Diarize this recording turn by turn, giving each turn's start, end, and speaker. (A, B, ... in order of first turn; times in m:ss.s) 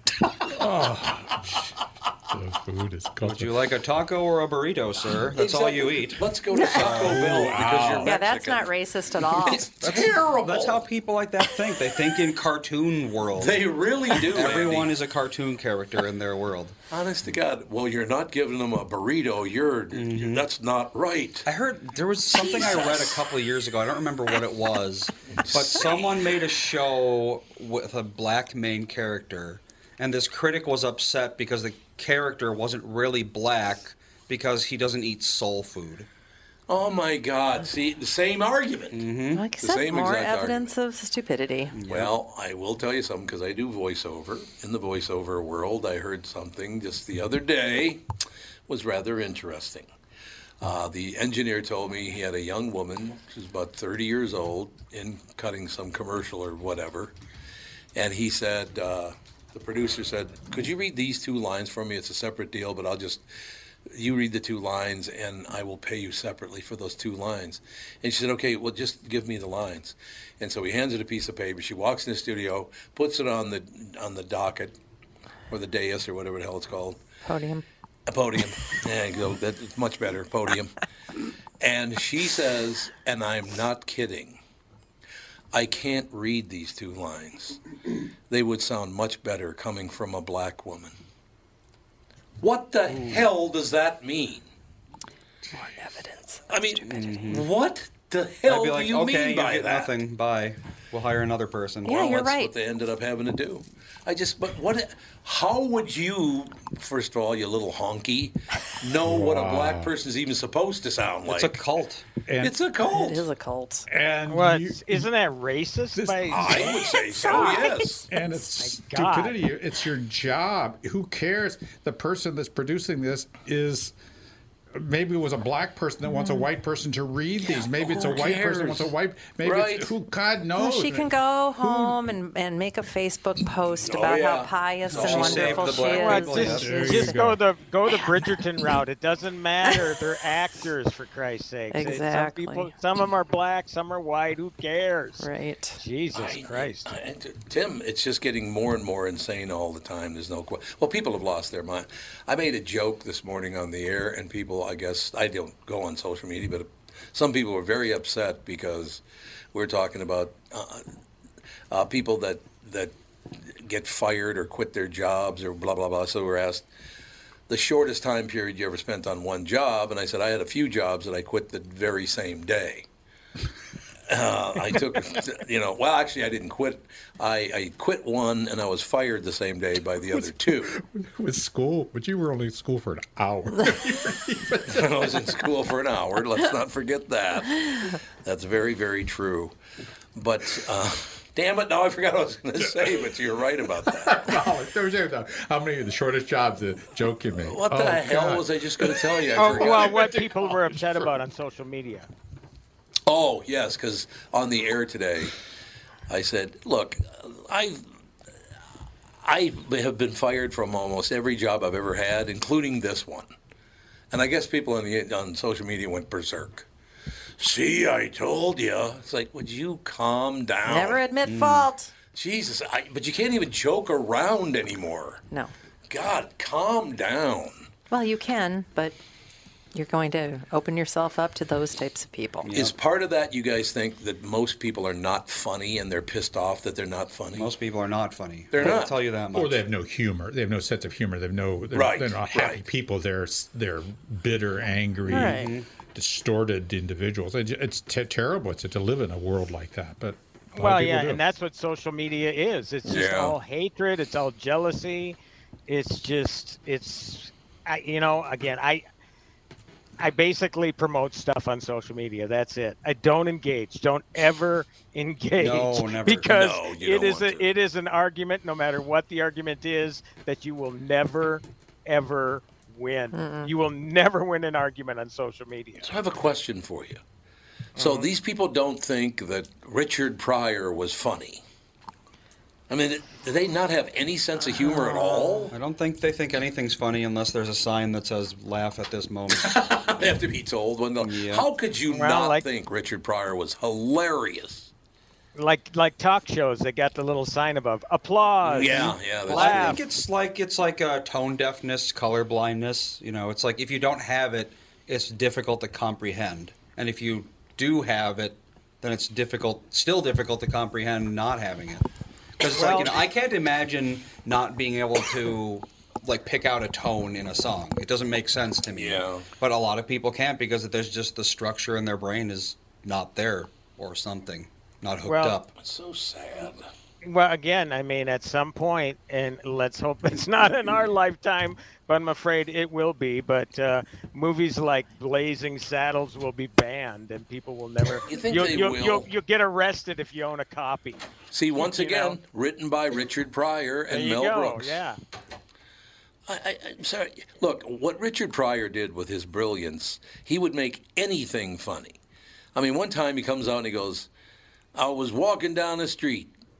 0:00.4-0:03.6 A
0:03.2-0:07.2 B
0:05.3-0:08.7 C
0:06.5-0:06.9 D
0:06.9-0:08.1 A
0:08.0-0:09.7 D
0:09.3-0:10.8 C
0:09.8-0:16.7 B
0:13.4-0:14.9 C
0:16.9-0:21.5 C
0:19.9-0:20.4 B
0:21.4-0:36.1 B
0:22.3-0:23.2 C
0:25.4-0:26.2 C
0:36.7-0:40.7 C
0:38.9-0:39.4 B
0:39.3-0:41.8 D
0:41.7-0:42.1 B
0:41.9-0:48.0 C
0:48.7-0:49.9 C
0:50.6-0:57.1 C
0:57.9-1:03.2 C
1:03.9-1:14.8 C
1:15.5-1:17.0 C
1:17.2-1:17.6 D
1:18.1-1:20.7 C
1:21.6-1:24.4 C
1:25.5-1:27.6 C
1:28.3-1:30.9 C
1:32.4-1:34.5 C
1:35.5-1:36.4 D
1:36.5-1:39.9 C
1:36.8-1:37.5 B
1:38.4-1:42.3 B
1:41.8-1:42.5 D
1:41.8-1:51.6 C
1:49.0-1:49.9 A
1:51.2-1:52.0 B
1:52.3-1:52.6 A
1:52.4-1:53.2 C
1:52.8-1:53.9 D
1:53.9-1:55.1 A
1:54.3-1:56.7 E
1:55.9-1:56.6 A
1:56.3-1:58.0 C
1:56.6-1:58.0 D
1:58.1-2:03.9 A
1:58.6-1:59.4 E
2:04.7-2:12.0 A
2:06.1-2:06.4 D
2:07.4-2:09.9 C
2:10.6-2:17.3 D
2:13.8-2:15.8 C
2:14.9-2:16.8 B
2:15.8-2:25.3 E
2:16.4-2:17.4 A
2:17.9-2:18.3 D
2:21.7-2:22.7 D
2:25.2-2:25.8 D
2:25.8-2:26.9 E
2:26.1-2:40.8 C
2:41.7-2:46.6 C
2:47.5-2:52.9 C
2:54.1-3:00.8 C
3:00.1-3:05.3 A
3:04.7-3:09.6 C
3:10.1-3:14.4 C
3:14.0-3:21.1 A
3:17.4-3:20.0 C
3:19.4-3:22.1 E
3:23.0-3:25.4 C
3:26.1-3:27.8 C
3:29.2-3:33.3 C
3:34.1-3:36.7 C
3:37.4-3:41.0 C
3:40.6-3:41.9 D
3:41.2-3:41.7 B
3:42.1-3:45.2 C
3:45.9-3:47.7 C
3:47.9-3:49.0 D
3:49.7-3:52.5 D
3:52.4-3:52.7 B
3:52.5-3:57.5 C
3:57.3-3:59.6 B
3:58.5-3:58.9 C
3:59.3-4:11.2 A
4:01.7-4:02.6 C
4:05.1-4:05.5 D
4:05.1-4:05.6 B
4:10.5-4:15.2 E
4:12.8-4:13.4 C
4:15.7-4:18.8 E
4:20.0-4:35.9 E
4:25.4-4:26.3 B
4:26.2-4:27.5 C
4:33.1-4:33.5 D
4:35.8-4:37.0 C
4:37.8-4:38.1 E
4:37.8-4:41.4 C
4:42.7-4:45.6 C
4:45.5-4:49.5 B
4:49.3-4:54.7 C
4:51.0-4:51.5 B
4:51.9-4:52.4 E
4:55.3-4:59.8 E
4:58.4-4:59.8 C
4:58.5-5:11.9 B
5:12.4-5:25.5 B
5:12.5-5:13.0 E
5:18.7-5:19.3 C
5:25.0-5:25.4 E
5:25.6-5:26.7 C
5:27.0-5:41.0 E
5:38.1-5:39.1 C
5:41.3-5:44.8 C
5:41.6-5:42.2 E
5:43.9-5:45.0 E
5:46.3-5:52.0 C
5:52.5-5:54.1 C
5:54.7-5:56.3 C